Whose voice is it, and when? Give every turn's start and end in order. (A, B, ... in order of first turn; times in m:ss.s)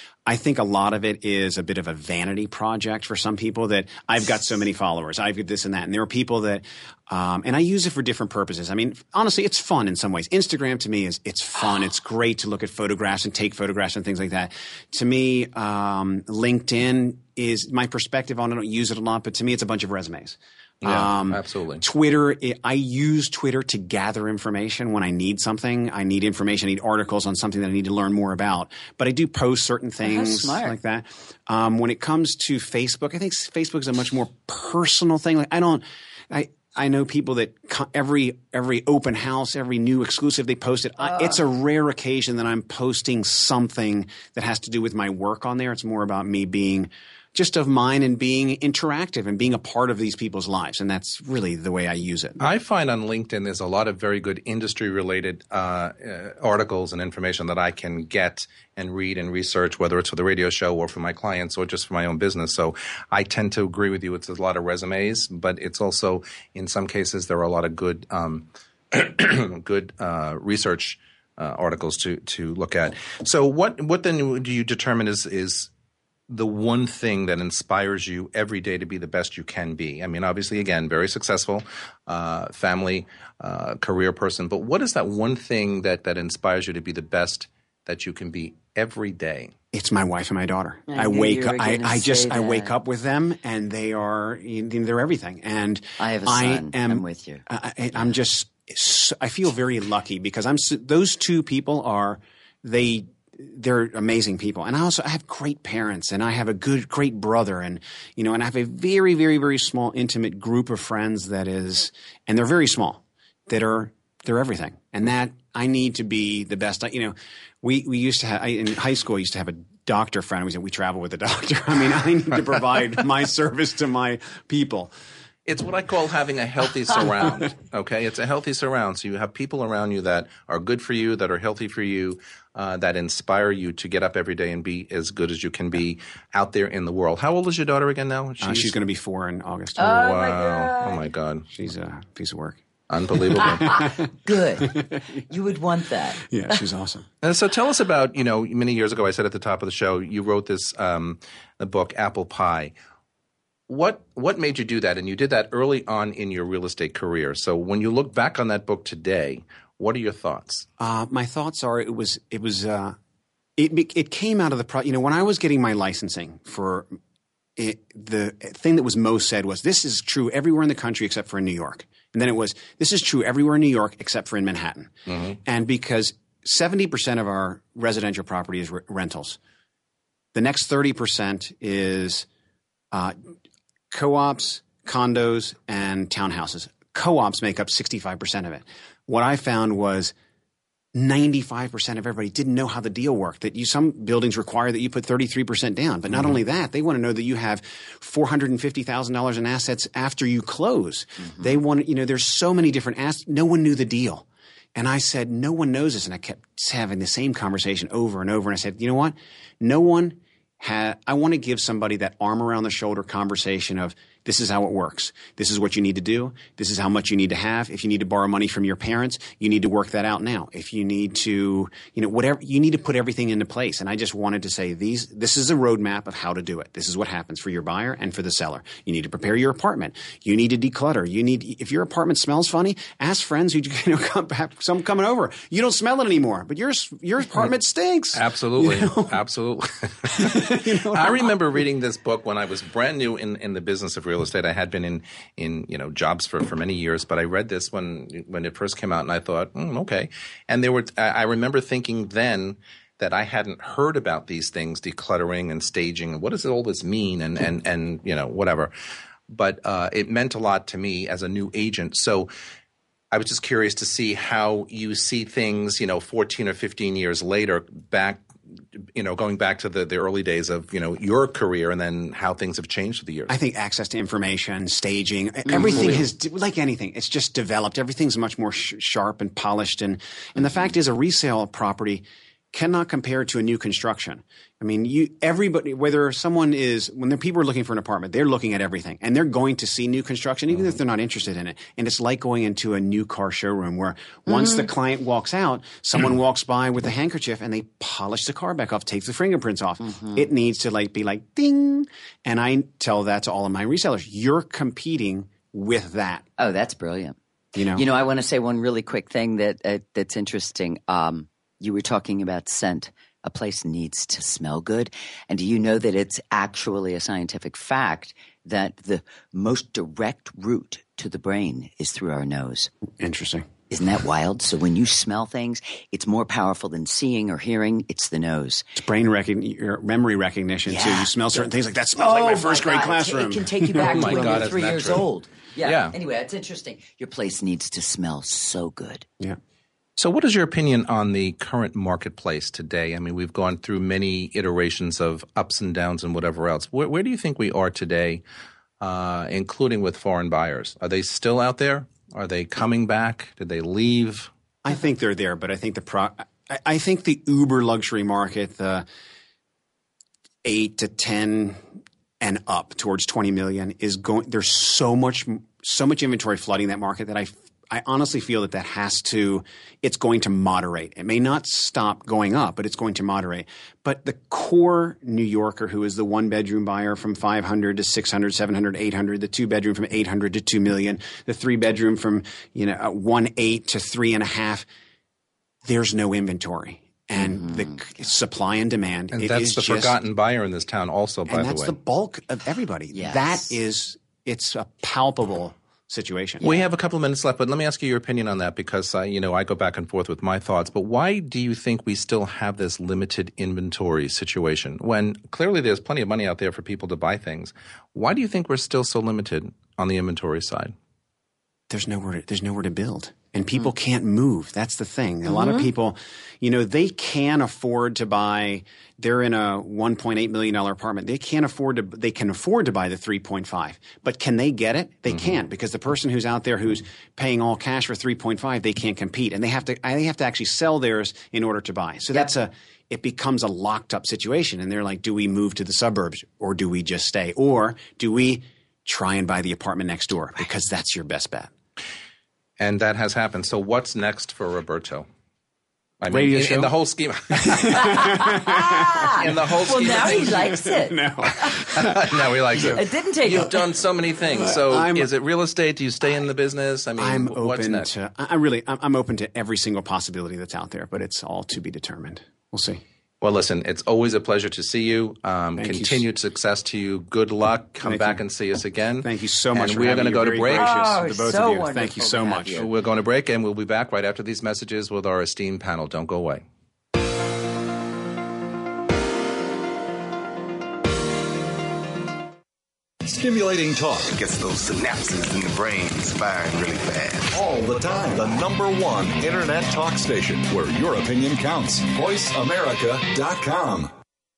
0:00.3-0:52.4 A
0:20.8-0:21.8 B
0:30.0-0:30.8 C
0:41.0-0:41.4 C
0:52.4-1:15.7 B
1:16.3-1:29.5 B
1:29.7-2:04.9 A
1:30.9-1:32.7 C
1:36.0-1:37.4 C
2:05.5-2:18.8 B
2:18.4-2:19.9 A
2:19.8-2:21.1 C
2:19.8-2:21.4 B
2:21.5-2:25.0 A
2:22.9-2:23.8 B
2:23.4-2:26.2 C
2:26.2-2:27.0 A
2:27.2-2:32.7 B
2:33.7-2:40.7 B
2:40.8-2:43.0 A
2:43.6-2:47.0 A
2:47.6-2:59.4 A
2:55.1-2:55.4 B
3:00.3-3:02.3 A
3:03.9-3:10.1 A
3:10.9-3:59.2 A
3:58.1-4:18.7 B
4:00.1-4:01.3 A
4:19.3-4:22.3 B
4:23.1-4:28.2 B
4:29.0-4:33.4 B
4:33.3-5:06.2 A
4:35.5-4:36.0 C
4:35.7-4:36.0 B
4:54.3-4:54.7 C
4:59.8-5:00.2 C
5:06.4-5:07.2 C
5:07.6-5:07.9 A
5:07.8-5:22.7 C
5:23.0-5:23.5 A
5:23.7-5:28.6 C
5:28.8-5:34.4 A
5:30.7-5:39.1 C
5:33.8-5:35.1 B
5:35.6-5:35.9 B
5:40.0-5:48.2 B
5:48.8-5:54.3 B
5:54.6-5:58.9 A
6:00.4-6:01.6 A
6:02.2-6:24.7 A
6:25.6-6:30.0 A
6:27.2-6:28.0 C
6:29.1-6:31.8 B
6:31.3-6:36.5 A
6:32.9-6:33.6 C
6:36.4-6:50.7 B
6:51.7-7:21.5 A
6:55.3-6:55.7 C
7:22.6-7:25.1 B
7:26.0-7:28.2 B
7:26.1-7:26.7 A
7:27.3-7:33.5 A
7:27.9-7:31.6 C
7:29.2-7:30.4 B
7:31.8-7:37.9 B
7:32.6-7:33.6 C
7:34.3-7:35.1 A
7:37.0-7:42.8 A
7:43.2-7:50.7 B
7:45.6-7:46.1 A
7:47.8-7:48.2 A
7:49.0-7:52.7 A
7:50.5-7:52.7 C
7:52.6-7:56.4 B
8:03.0-8:04.2 D
8:04.1-8:07.4 E
8:07.3-8:13.9 D